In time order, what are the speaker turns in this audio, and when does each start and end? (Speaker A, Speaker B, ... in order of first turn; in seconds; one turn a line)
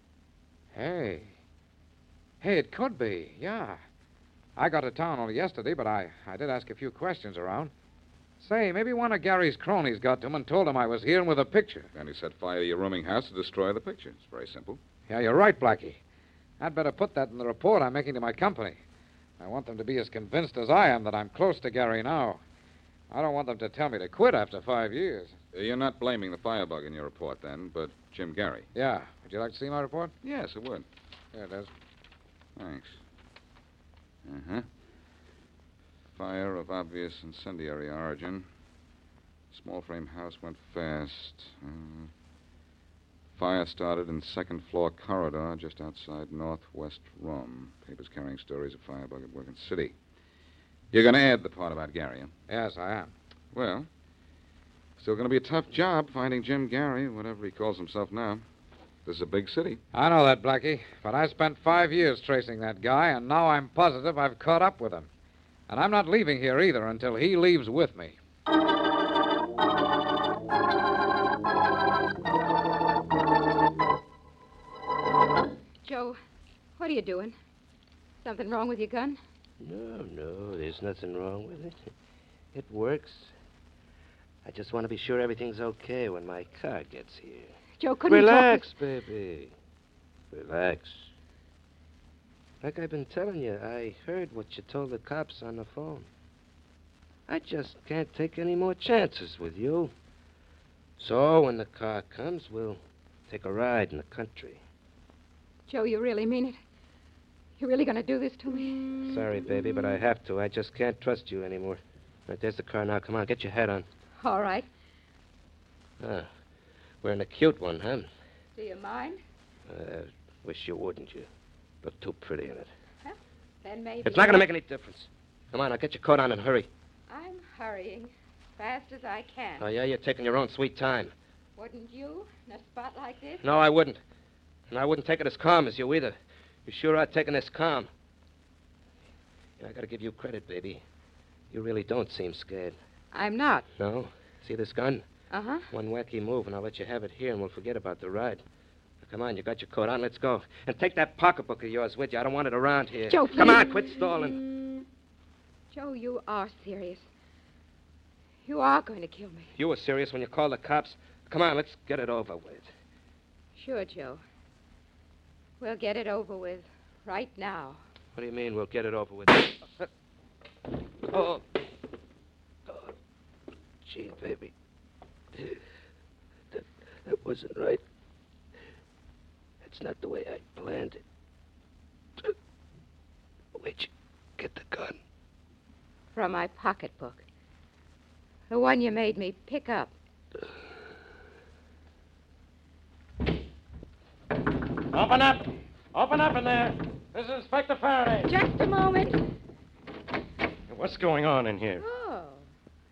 Speaker A: 0.7-1.3
Speaker A: 2.4-3.8
Speaker A: 4.6-7.7
Speaker A: 8.4-11.9
Speaker B: 11.9-14.8
Speaker A: 15.1-16.0
Speaker A: 16.6-18.8
Speaker A: 19.4-22.4
Speaker A: 23.1-25.4
Speaker B: 25.5-28.7
Speaker A: 28.7-30.1
Speaker B: 30.2-30.8
Speaker A: 31.3-31.7
Speaker B: 32.6-33.0
Speaker B: 34.2-34.6
Speaker B: 36.1-38.5
Speaker B: 39.5-42.1
Speaker B: 43.3-49.9
Speaker B: 50.9-52.3
Speaker A: 52.5-53.1
Speaker B: 53.5-53.9
Speaker B: 55.0-58.4
Speaker B: 59.0-59.8
Speaker A: 59.9-65.1
Speaker A: 65.7-68.2
Speaker C: 75.8-76.2
Speaker C: 76.8-77.3
Speaker C: 78.2-79.2
Speaker D: 79.6-81.9
Speaker D: 82.5-83.3
Speaker D: 84.4-87.5
Speaker C: 87.8-88.7
Speaker D: 88.1-89.5
Speaker D: 90.3-91.1
Speaker D: 92.6-96.1
Speaker D: 97.3-99.9
Speaker D: 101.0-104.6
Speaker C: 105.7-106.6
Speaker C: 107.6-108.9
Speaker D: 109.0-113.8
Speaker C: 114.2-114.7
Speaker D: 116.0-116.3
Speaker D: 117.0-118.1
Speaker C: 118.5-119.2
Speaker D: 119.7-121.3
Speaker D: 121.8-122.7
Speaker C: 123.0-124.4
Speaker D: 124.0-126.7
Speaker C: 127.1-129.7
Speaker D: 129.6-131.1
Speaker C: 131.6-133.4
Speaker D: 133.4-134.0
Speaker D: 134.7-137.9
Speaker D: 139.6-140.8
Speaker D: 141.5-142.8
Speaker C: 143.1-143.7
Speaker D: 143.8-145.1
Speaker C: 145.3-145.7
Speaker D: 145.7-148.4
Speaker D: 149.0-154.4
Speaker C: 153.1-153.7
Speaker C: 155.7-157.1
Speaker C: 158.4-159.5
Speaker D: 159.6-162.7
Speaker C: 163.6-164.2
Speaker C: 165.6-167.8
Speaker D: 168.1-169.8
Speaker D: 171.1-171.6
Speaker D: 172.7-172.9
Speaker D: 173.8-174.5
Speaker D: 175.3-175.6
Speaker D: 176.5-177.8
Speaker D: 179.6-181.0
Speaker D: 183.5-185.0
Speaker C: 186.1-187.2
Speaker C: 188.5-189.9
Speaker E: 194.9-198.3
Speaker C: 198.3-199.2
Speaker E: 200.7-201.8
Speaker C: 201.8-202.4